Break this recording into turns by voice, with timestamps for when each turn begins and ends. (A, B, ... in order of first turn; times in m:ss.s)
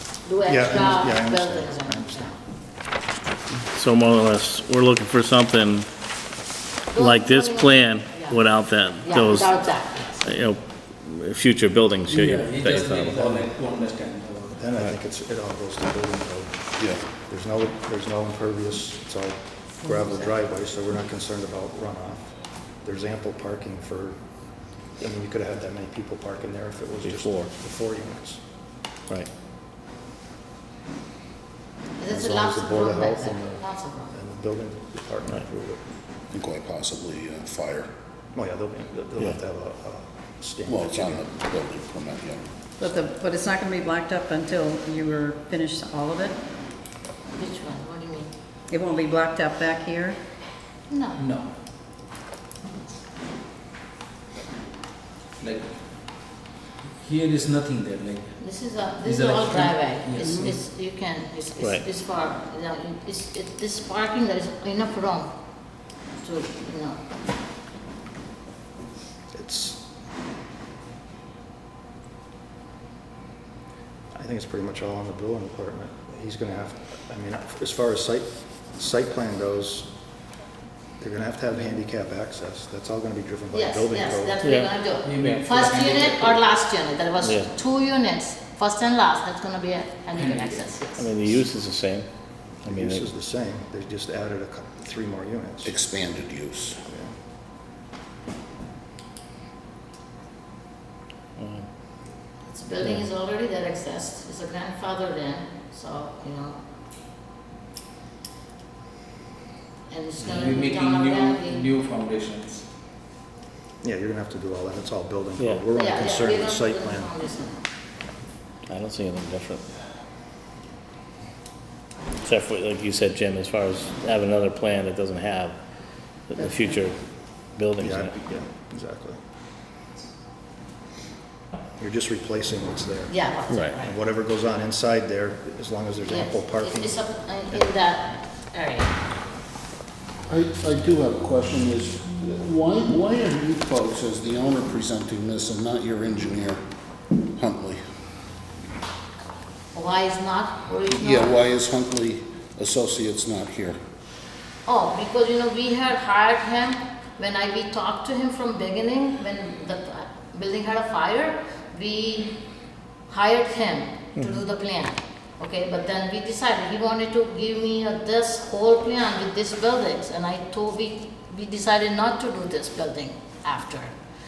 0:00.2-0:02.4 A
0:00.5-0:02.3 B
0:03.7-0:05.9 C
0:06.9-0:08.4 A
0:07.0-0:09.6 C
0:09.0-0:10.3 A
0:10.2-0:13.5 C
0:12.1-0:14.6 D
0:14.6-0:16.6 B
0:16.8-0:17.0 E
0:17.2-0:24.2 B
0:19.9-0:20.3 A
0:25.0-0:28.4 B
0:27.0-0:27.5 C
0:32.0-0:34.1 A
0:32.1-0:35.9 B
0:36.3-0:37.9 E
0:38.3-0:41.3 B
0:40.7-0:42.5 E
0:42.8-0:46.4 F
0:47.4-0:48.3 A
0:48.7-0:50.2 F
0:50.9-0:51.2 A
0:51.2-0:51.5 D
0:55.4-0:55.7 D
0:57.0-0:58.4 D
0:58.4-1:05.3 A
0:59.0-1:00.5 D
1:06.2-1:07.0 A
1:09.3-1:09.8 B
1:14.2-1:19.9 B
1:21.0-1:24.4 B
1:23.5-1:31.1 A
1:24.4-1:24.7 C
1:25.0-1:26.4 D
1:27.2-1:27.5 C
1:30.1-1:30.6 D
1:31.0-1:32.1 C
1:32.6-1:35.7 B
1:32.6-1:33.0 C
1:35.6-1:36.8 E
1:36.9-1:37.1 B
1:41.4-1:41.6 C
1:42.5-1:46.6 A
1:49.9-1:51.7 A
1:50.4-1:52.6 D
1:53.8-1:57.1 B
1:55.4-1:55.6 C
1:55.8-1:57.7 A
1:58.7-1:59.6 C
2:02.2-2:05.6 C
2:06.3-2:07.0 C
2:07.5-2:08.1 C
2:07.8-2:09.2 B
2:11.8-2:13.2 B
2:13.1-2:13.9 A
2:13.8-2:17.7 B
2:16.1-2:18.9 A
2:20.3-2:26.6 E
2:27.4-2:27.8 E
2:29.7-2:31.3 A
2:30.9-2:33.8 E
2:34.7-2:42.4 A
2:43.1-2:53.9 A